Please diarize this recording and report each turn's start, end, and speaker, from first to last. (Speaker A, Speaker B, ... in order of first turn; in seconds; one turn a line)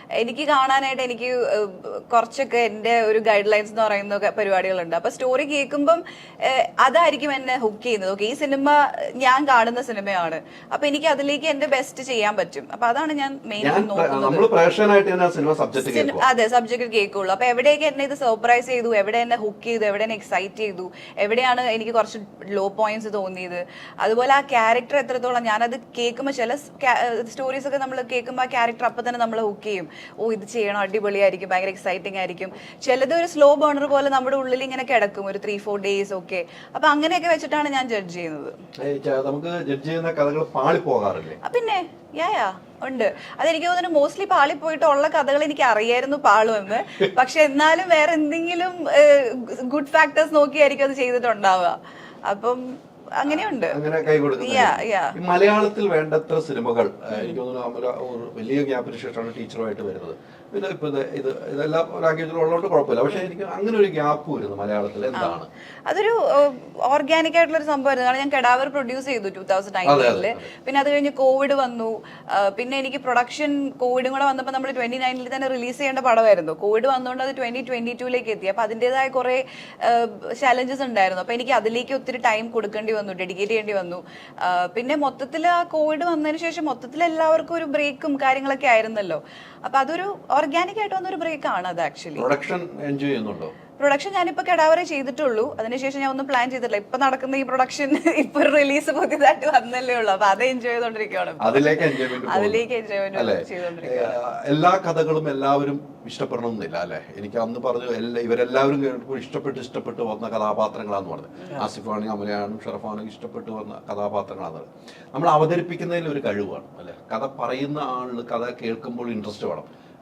Speaker A: 0.2-14.5
Speaker B: 13.6-16.2
Speaker A: 15.8-38.6
Speaker B: 38.8-41.4
Speaker A: 41.4-55.1
Speaker B: 53.2-65.5
Speaker A: 57.1-57.4
Speaker A: 65.1-92.3
Speaker B: 69.8-70.5
Speaker B: 92.2-93.5
Speaker A: 93.8-104.2
Speaker B: 101.4-119.7